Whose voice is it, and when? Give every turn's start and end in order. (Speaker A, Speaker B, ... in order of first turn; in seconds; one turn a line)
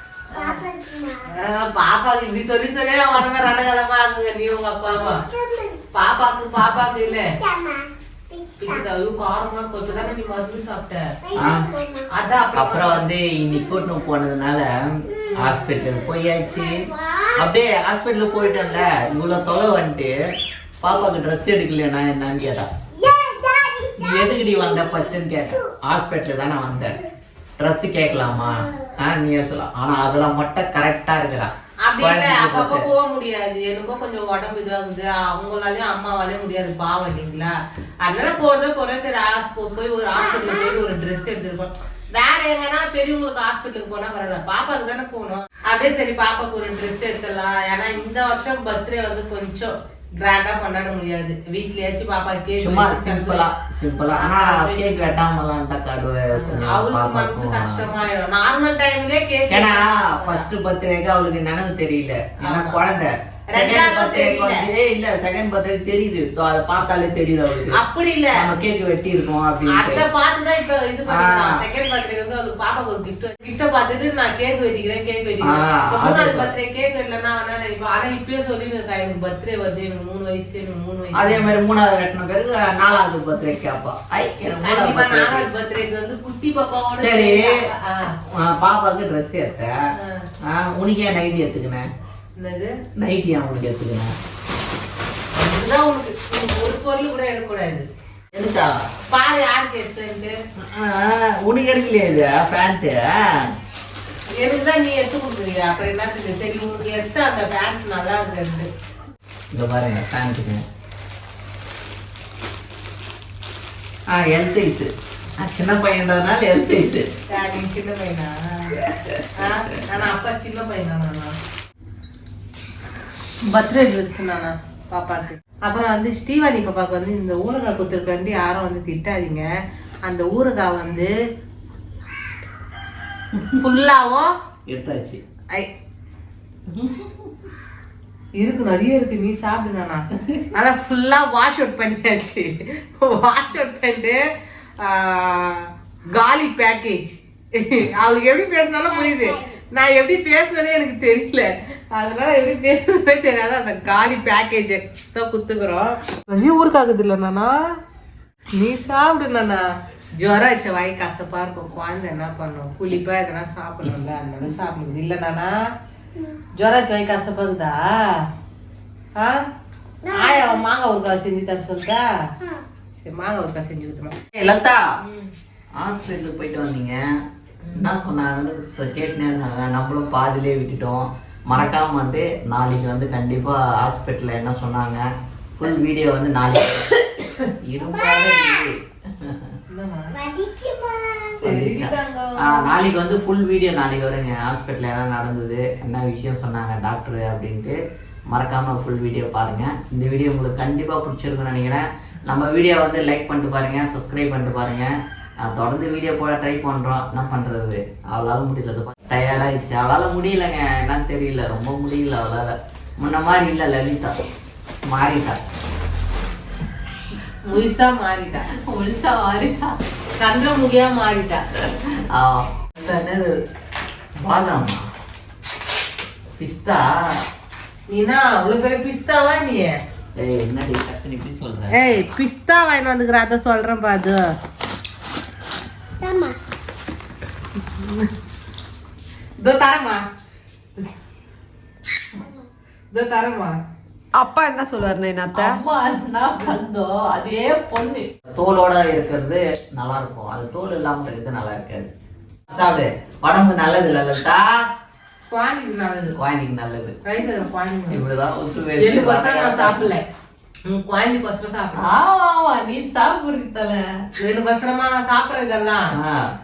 Speaker A: 0.3-0.6
Speaker B: 0.6-1.2
Speaker A: 1.2-5.2
Speaker A: 5.9-7.4
Speaker A: 8.6-11.0
Speaker C: 11.3-11.7
Speaker A: 12.1-13.1
Speaker C: 12.5-14.7
Speaker C: 15.2-16.8
Speaker C: 17.4-20.1
Speaker C: 20.8-22.7
Speaker B: 23.0-23.9
Speaker C: 23.9-27.0
Speaker C: 27.6-32.9
Speaker A: 31.8-53.5
Speaker C: 52.6-57.9
Speaker A: 54.1-55.0
Speaker A: 56.3-60.4
Speaker C: 59.5-67.8
Speaker A: 62.4-62.8
Speaker A: 63.5-64.7
Speaker A: 67.7-68.4
Speaker C: 68.3-70.0
Speaker A: 69.7-81.5
Speaker C: 71.1-71.5
Speaker C: 75.4-76.5
Speaker C: 81.1-85.5
Speaker A: 84.6-88.1
Speaker C: 87.0-87.6
Speaker C: 88.3-89.7
Speaker A: 90.0-90.3
Speaker C: 90.4-91.9
Speaker A: 92.4-92.7
Speaker C: 93.0-94.1
Speaker A: 95.3-97.9
Speaker C: 98.3-98.7
Speaker A: 99.1-100.3
Speaker C: 100.6-103.0
Speaker A: 104.3-108.7
Speaker C: 109.5-110.6
Speaker C: 114.1-117.1
Speaker A: 117.3-118.8
Speaker C: 118.9-119.3
Speaker A: 119.4-121.3
Speaker A: 123.5-129.5
Speaker A: 130.0-131.1
Speaker A: 133.6-134.3
Speaker C: 134.7-135.2
Speaker C: 136.7-137.1
Speaker A: 138.4-144.2
Speaker A: 144.8-157.6
Speaker A: 158.5-165.6
Speaker A: 166.6-168.2
Speaker A: 169.1-169.4
Speaker A: 170.1-172.0
Speaker A: 172.9-174.2
Speaker C: 174.3-174.8
Speaker A: 175.0-175.3
Speaker C: 175.8-177.0
Speaker C: 177.7-185.1
Speaker C: 185.6-186.9
Speaker C: 187.6-189.5
Speaker A: 189.7-190.2
Speaker B: 190.2-191.3
Speaker A: 191.4-192.7
Speaker C: 191.4-197.8
Speaker C: 198.3-214.1
Speaker C: 214.9-215.4
Speaker A: 217.4-218.4
Speaker C: 218.7-219.8
Speaker A: 220.2-221.4
Speaker C: 221.6-223.3
Speaker C: 224.2-224.8
Speaker C: 226.4-226.8
Speaker A: 227.9-229.7
Speaker C: 230.2-231.9
Speaker A: 231.7-234.2
Speaker B: 236.0-236.3
Speaker A: 237.6-238.1
Speaker A: 239.4-240.0
Speaker A: 242.9-243.5
Speaker B: 244.1-245.6
Speaker C: 245.3-251.9
Speaker C: 252.5-254.5
Speaker A: 255.3-256.1
Speaker C: 256.1-256.9
Speaker A: 257.0-258.0
Speaker C: 257.9-259.9
Speaker A: 258.8-260.0
Speaker A: 260.6-261.9
Speaker C: 261.8-263.8
Speaker A: 264.2-265.9
Speaker C: 265.9-266.2